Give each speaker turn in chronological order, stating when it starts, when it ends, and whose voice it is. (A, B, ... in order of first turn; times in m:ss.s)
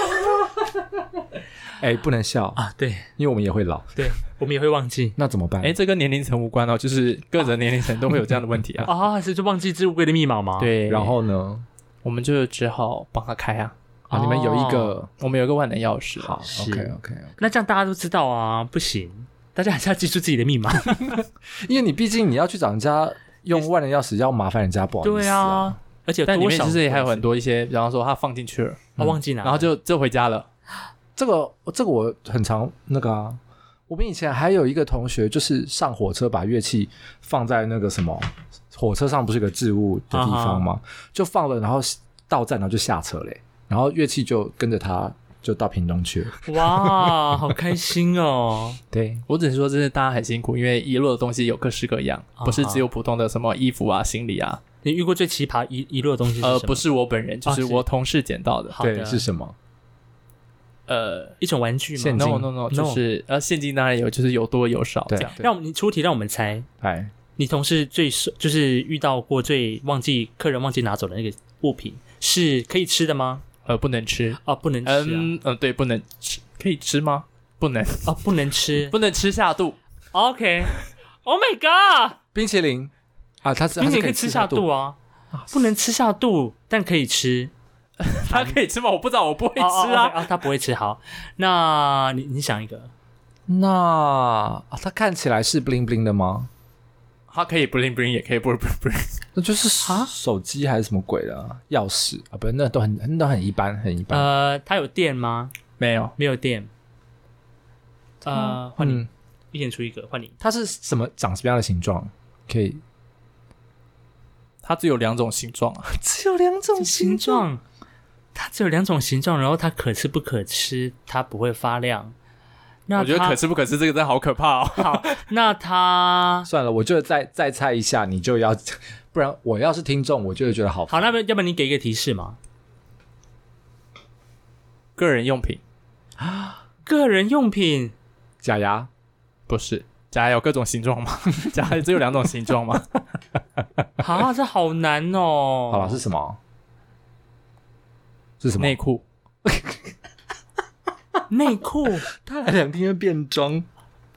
0:01.8-0:02.6 A
0:02.6-0:03.1 B
0:03.2-0:04.0 A
0:04.0-0:05.2 B
0:05.2-0:05.8 A
0:05.6-0:08.9 C
0:08.8-0:10.8 B
0:10.6-0:11.1 C
0:10.9-0:11.6 A
0:12.0-0:13.7 C
0:14.1-0:15.0 B
0:14.1-0:15.1 A
0:15.2-0:16.4 C
0:16.2-0:17.4 A
0:16.4-0:21.2 B
0:21.0-0:25.8 A
0:25.0-0:27.2 B
0:26.3-0:30.5 C
0:29.0-0:29.7 B
0:31.2-0:47.3 A
0:40.1-0:40.6 B
0:46.5-0:48.8 B
0:48.9-0:49.2 A
0:49.3-0:54.6 C
0:52.4-0:52.8 B
0:54.8-0:56.8 B
0:56.4-0:58.8 C
0:57.4-0:57.8 B
0:58.7-0:59.3 B
0:58.8-0:59.5 A
1:00.9-1:01.4 C
1:01.4-1:03.0 B
1:02.0-1:02.5 A
1:02.2-1:05.3 C
1:05.1-1:05.5 A
1:05.4-1:06.7 B
1:06.8-1:07.1 A
1:07.4-1:13.4 B
1:13.6-1:18.1 C
1:14.4-1:15.3 B
1:18.0-1:19.0 B
1:18.9-1:19.8 C
1:20.1-1:22.2 B
1:22.3-1:22.9 A
1:23.4-1:24.6 A
1:23.8-1:25.0 B
1:25.5-1:27.5 B
1:28.0-1:30.3 C
1:29.6-1:32.9 B
1:33.5-1:36.5 A
1:37.3-1:39.1 C
1:39.3-1:44.3 A
1:39.8-1:40.1 B
1:44.1-1:45.5 B
1:45.8-1:46.1 C
1:46.2-1:46.7 B
1:48.2-1:50.3 B
1:48.3-1:49.1 A
1:50.4-1:52.8 A
1:54.6-1:55.9 C
1:55.9-1:57.4 A
1:56.8-1:57.6 B
1:58.3-2:02.1 B
2:02.9-2:03.4 B
2:03.0-2:05.2 C
2:04.8-2:06.5 B
2:06.4-2:11.0 A
2:10.9-2:12.4 B
2:15.0-2:15.6 C
2:16.2-2:16.6 A
2:16.8-2:17.9 B
2:18.4-2:18.9 A
2:19.5-2:22.9 C
2:24.0-2:26.0 B
2:25.7-2:26.4 A
2:28.4-2:28.8 A
2:28.6-2:29.0 C
2:29.4-2:29.9 A
2:31.3-2:32.0 B
2:32.1-2:33.6 A